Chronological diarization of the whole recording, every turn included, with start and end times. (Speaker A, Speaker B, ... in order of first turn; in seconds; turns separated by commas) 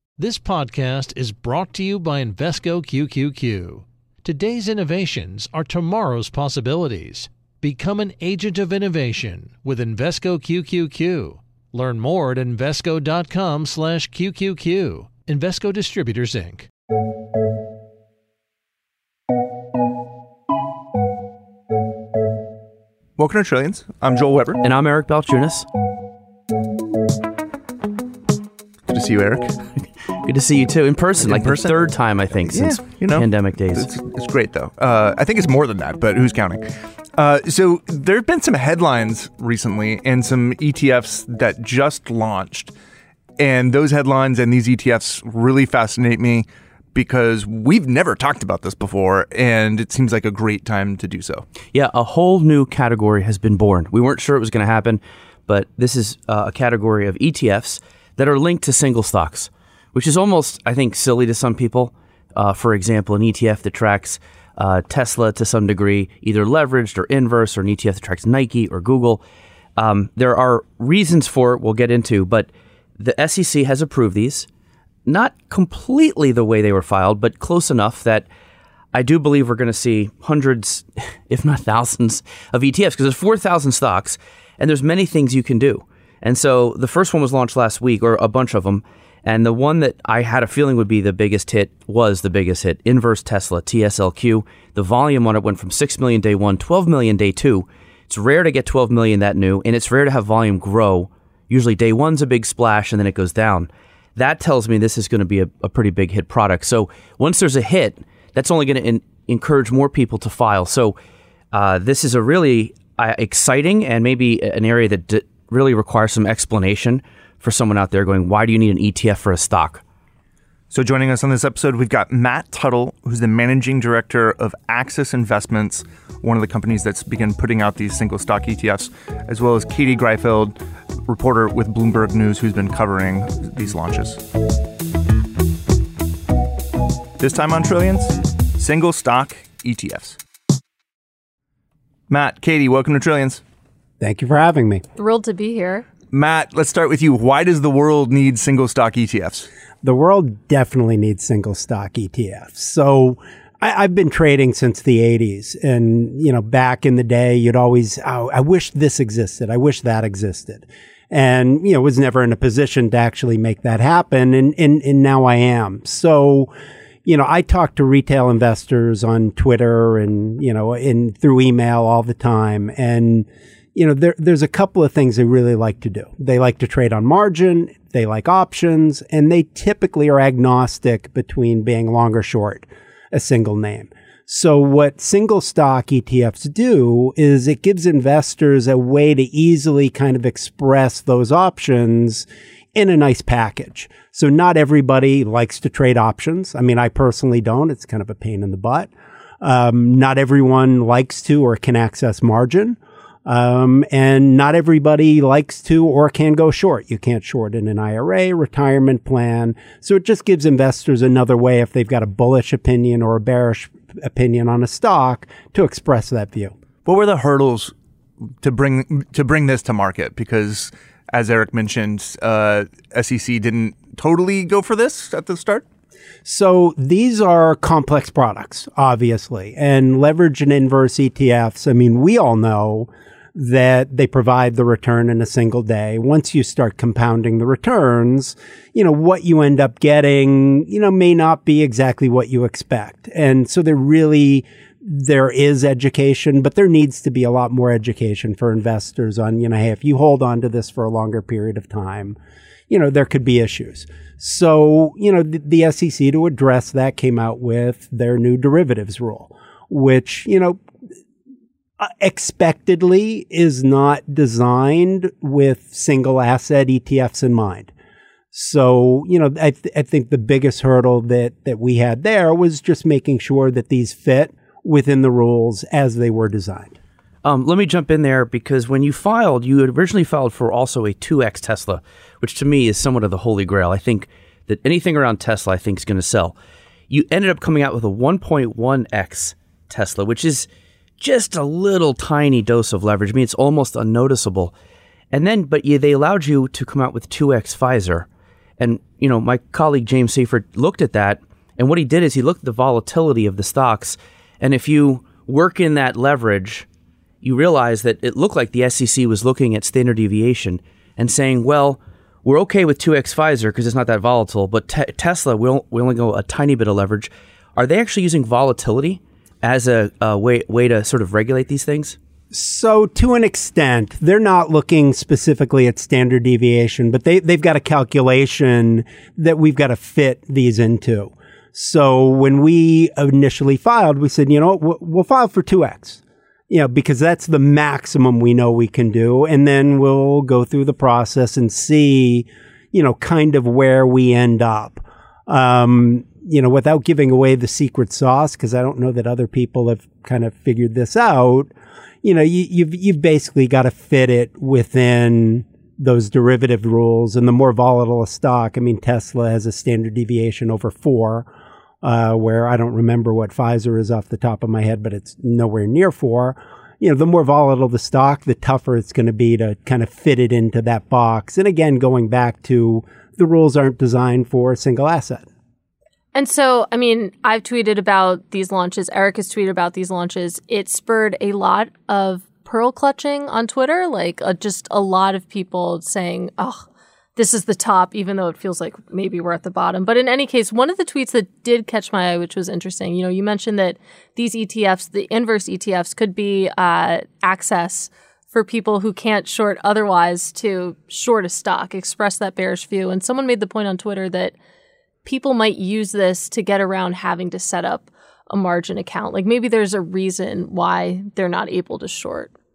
Speaker A: 0.2-16.7, Speaker B: 23.2-24.6, Speaker C: 24.6-25.6, Speaker B: 28.9-29.6, Speaker C: 30.2-33.9, Speaker B: 31.2-31.9, Speaker B: 32.5-36.6, Speaker B: 37.2-42.7, Speaker B: 43.4-51.5, Speaker C: 51.7-69.2, Speaker C: 69.8-74.5, Speaker C: 75.0-78.3, Speaker C: 78.9-111.0, Speaker C: 111.5-119.8, Speaker B: 120.7-134.2, Speaker B: 137.2-140.2, Speaker B: 142.1-143.4, Speaker D: 144.0-144.8, Speaker E: 144.9-145.8, Speaker B: 146.1-149.5, Speaker D: 149.8-166.5, Speaker D: 167.0-216.5, Speaker B: 216.8-217.7, Speaker B: 218.4-225.6, Speaker D: 226.2-252.2, Speaker D: 252.7-260.6, Speaker D: 261.8-267.7, Speaker D: 268.3-276.8, Speaker C: 277.2-286.3, Speaker C: 286.9-290.5, Speaker C: 291.0-294.5, Speaker C: 295.1-298.1, Speaker C: 298.6-306.6, Speaker C: 307.2-322.0, Speaker D: 322.3-351.5, Speaker D: 352.0-361.3, Speaker D: 361.8-375.2, Speaker E: 376.1-404.3, Speaker E: 405.0-412.3